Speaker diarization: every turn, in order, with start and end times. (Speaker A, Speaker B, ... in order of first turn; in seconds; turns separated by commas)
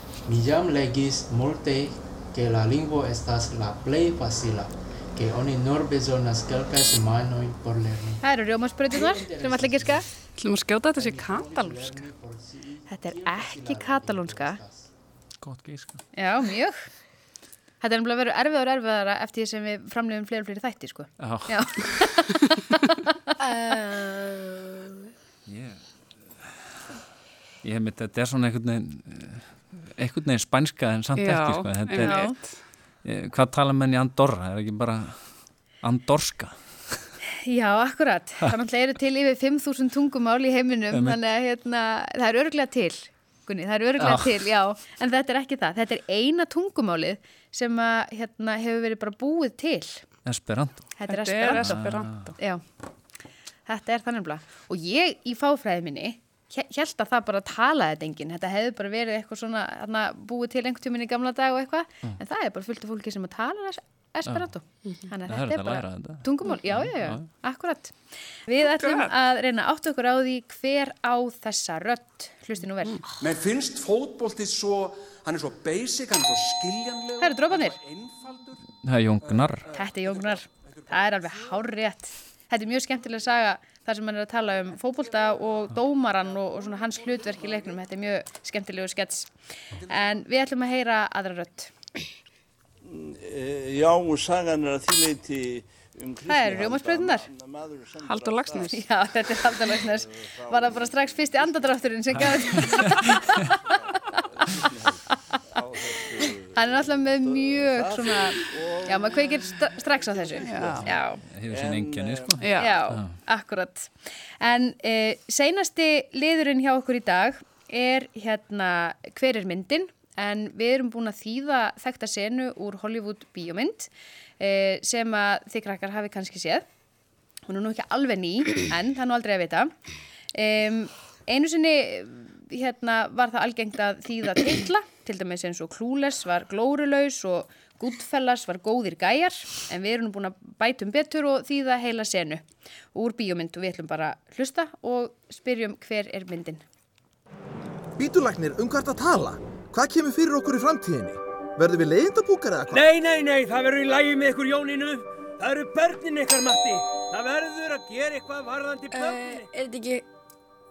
Speaker A: 0.3-8.2, Speaker B: 8.2-10.1, Speaker A: 8.9-10.1, Speaker C: 10.4-12.0, Speaker A: 10.9-14.9, Speaker B: 12.9-14.6, Speaker D: 15.4-16.0, Speaker B: 16.1-16.8, Speaker B: 17.8-22.3, Speaker D: 21.2-21.6, Speaker E: 23.4-25.0, Speaker D: 25.5-25.8, Speaker D: 27.6-32.2, Speaker C: 31.2-32.6, Speaker B: 32.0-32.4, Speaker D: 33.0-35.2, Speaker D: 35.8-36.5, Speaker B: 37.4-50.0, Speaker D: 40.9-41.2, Speaker D: 44.0-44.4, Speaker D: 50.2-51.0, Speaker B: 51.0-51.8, Speaker C: 51.1-52.4, Speaker D: 51.5-52.3, Speaker B: 52.4-52.6, Speaker B: 53.7-67.9, Speaker D: 65.3-67.3, Speaker B: 68.5-73.0, Speaker C: 68.6-69.1, Speaker F: 73.2-78.5, Speaker B: 77.2-77.8, Speaker D: 78.8-79.7, Speaker B: 79.7-91.7, Speaker G: 92.8-98.7, Speaker B: 96.3-97.3, Speaker C: 98.0-98.8, Speaker B: 98.7-104.0, Speaker G: 100.0-101.8, Speaker D: 102.2-102.6, Speaker G: 104.5-105.0, Speaker G: 105.5-110.8, Speaker B: 106.5-111.2, Speaker C: 110.4-111.0, Speaker D: 110.7-113.1, Speaker G: 111.5-112.3, Speaker C: 112.4-112.8, Speaker B: 112.6-126.6, Speaker B: 127.5-129.7, Speaker B: 130.3-142.4, Speaker B: 142.9-146.6, Speaker H: 148.0-152.8, Speaker I: 152.7-159.5, Speaker E: 158.9-160.1